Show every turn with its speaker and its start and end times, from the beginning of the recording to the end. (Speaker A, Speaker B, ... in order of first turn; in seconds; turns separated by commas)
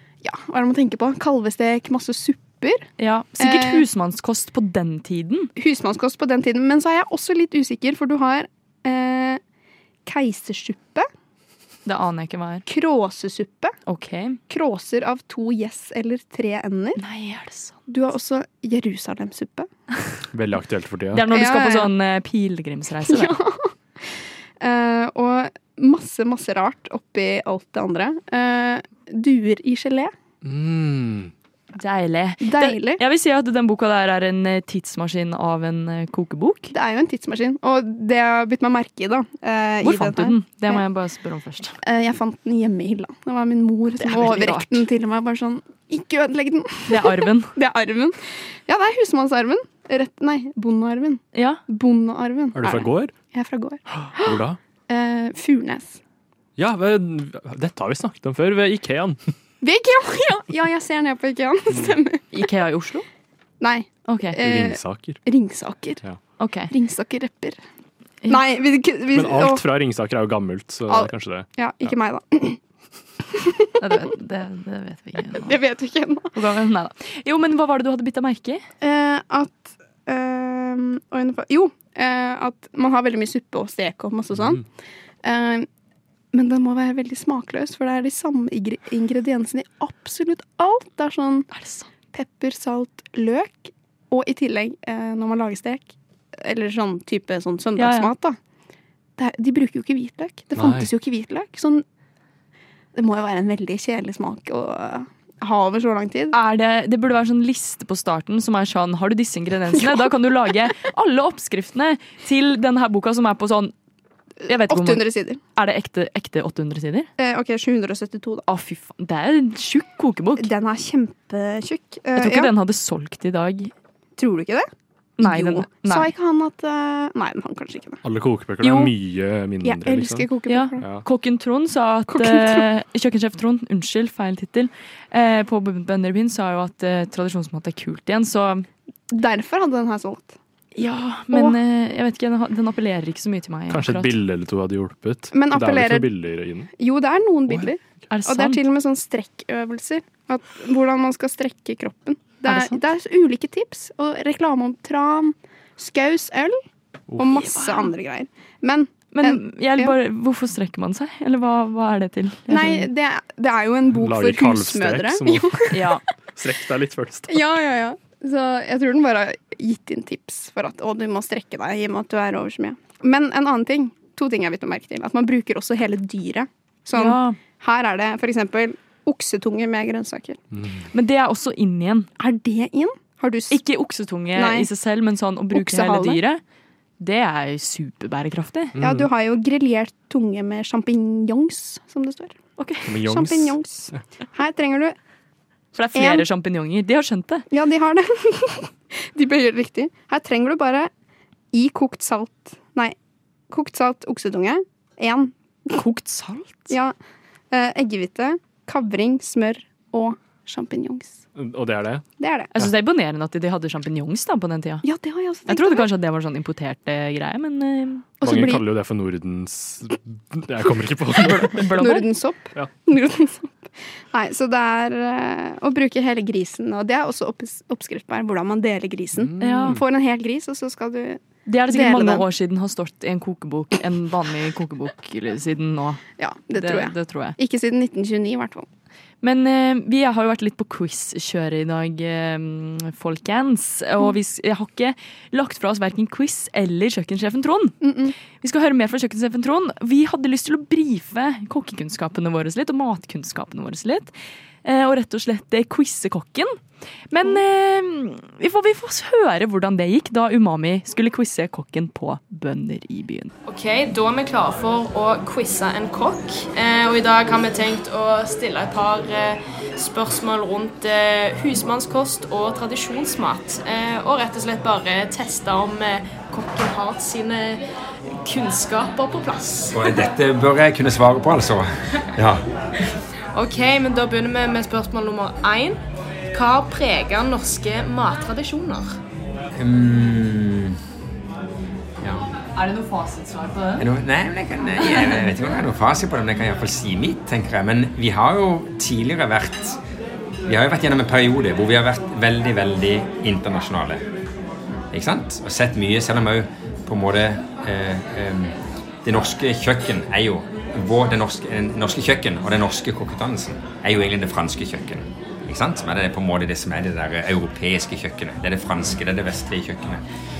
Speaker A: 0.2-2.9, Speaker B: 3.0-5.5, Speaker A: 3.4-3.8, Speaker A: 5.6-9.4, Speaker A: 10.1-11.1, Speaker B: 11.9-12.7, Speaker A: 12.7-13.8, Speaker B: 13.9-14.4, Speaker A: 14.5-17.0, Speaker B: 17.0-17.8, Speaker A: 17.9-19.7, Speaker C: 20.3-21.3, Speaker B: 21.1-23.4, Speaker A: 21.3-21.9, Speaker A: 23.1-23.7, Speaker A: 24.6-30.1, Speaker C: 30.4-31.3, Speaker B: 31.8-36.7, Speaker A: 32.4-33.0, Speaker A: 36.7-40.8, Speaker B: 39.8-41.8, Speaker A: 41.8-56.0, Speaker B: 44.0-44.9, Speaker B: 46.9-47.5, Speaker B: 51.3-51.6, Speaker C: 52.5-53.1, Speaker C: 53.9-54.6, Speaker C: 56.6-59.2, Speaker A: 59.6-62.2, Speaker C: 61.7-62.0, Speaker B: 62.3-63.0, Speaker A: 63.6-66.0, Speaker B: 64.1-64.4, Speaker C: 64.4-65.2, Speaker B: 66.4-66.7, Speaker A: 66.7-67.6, Speaker A: 68.3-69.6, Speaker C: 69.1-71.9, Speaker A: 70.9-72.6, Speaker A: 73.3-73.7, Speaker B: 73.8-75.6, Speaker A: 75.3-76.3, Speaker B: 76.3-78.6, Speaker A: 78.8-84.6, Speaker A: 85.2-85.7, Speaker A: 86.3-91.5, Speaker B: 91.5-91.9, Speaker A: 92.1-98.4, Speaker B: 97.8-98.1, Speaker A: 99.2-101.8, Speaker C: 100.6-100.9, Speaker A: 103.0-106.3, Speaker B: 106.3-113.7, Speaker B: 114.5-117.1, Speaker A: 114.7-115.4, Speaker A: 117.2-118.4, Speaker B: 118.5-120.5, Speaker A: 120.4-122.5, Speaker B: 122.2-123.7, Speaker A: 124.2-124.7, Speaker B: 125.2-126.1, Speaker A: 125.2-128.0, Speaker C: 128.0-131.0, Speaker B: 128.6-128.9, Speaker A: 129.6-130.8, Speaker B: 130.5-138.7, Speaker A: 132.1-132.7, Speaker A: 139.1-140.3, Speaker B: 140.8-144.2, Speaker A: 141.3-141.6, Speaker C: 143.7-146.7, Speaker A: 145.3-146.2, Speaker A: 146.8-156.6, Speaker B: 148.1-148.6, Speaker B: 152.5-152.8, Speaker A: 157.2-159.9, Speaker B: 157.5-157.9, Speaker B: 159.1-162.9, Speaker A: 162.5-165.9, Speaker C: 163.9-165.6, Speaker B: 165.7-166.0, Speaker C: 166.4-167.4, Speaker A: 167.3-180.4, Speaker B: 177.0-177.4, Speaker B: 180.9-182.1, Speaker A: 182.2-183.6, Speaker B: 183.5-186.4, Speaker A: 184.3-184.7, Speaker A: 185.5-186.2, Speaker B: 187.0-188.8, Speaker C: 188.8-189.1, Speaker A: 188.8-192.4, Speaker B: 192.6-192.9, Speaker C: 192.9-193.9, Speaker A: 193.0-195.0, Speaker B: 195.7-197.5, Speaker A: 195.9-196.2, Speaker A: 197.5-200.9, Speaker A: 201.5-202.9, Speaker A: 203.5-205.3, Speaker B: 205.7-206.7, Speaker A: 207.5-211.2, Speaker C: 211.3-212.1, Speaker A: 212.2-212.5, Speaker B: 212.5-214.8, Speaker A: 214.8-215.9, Speaker B: 215.5-218.1, Speaker A: 218.2-218.7, Speaker C: 218.2-221.6, Speaker B: 221.2-222.1, Speaker A: 221.7-223.5, Speaker A: 224.1-232.3, Speaker C: 229.1-229.8, Speaker B: 229.4-229.8, Speaker B: 231.5-236.0, Speaker A: 236.2-238.7, Speaker B: 236.6-237.4, Speaker B: 239.2-247.8, Speaker A: 247.8-248.1, Speaker B: 248.4-254.1, Speaker B: 254.6-256.6, Speaker B: 257.1-263.3, Speaker D: 263.5-277.6, Speaker D: 278.2-280.0, Speaker E: 279.7-282.4, Speaker D: 283.3-285.8, Speaker D: 286.3-289.0, Speaker E: 289.6-290.8, Speaker E: 292.0-292.3, Speaker B: 292.6-293.9, Speaker E: 293.8-299.8, Speaker E: 300.5-304.0, Speaker E: 304.9-320.0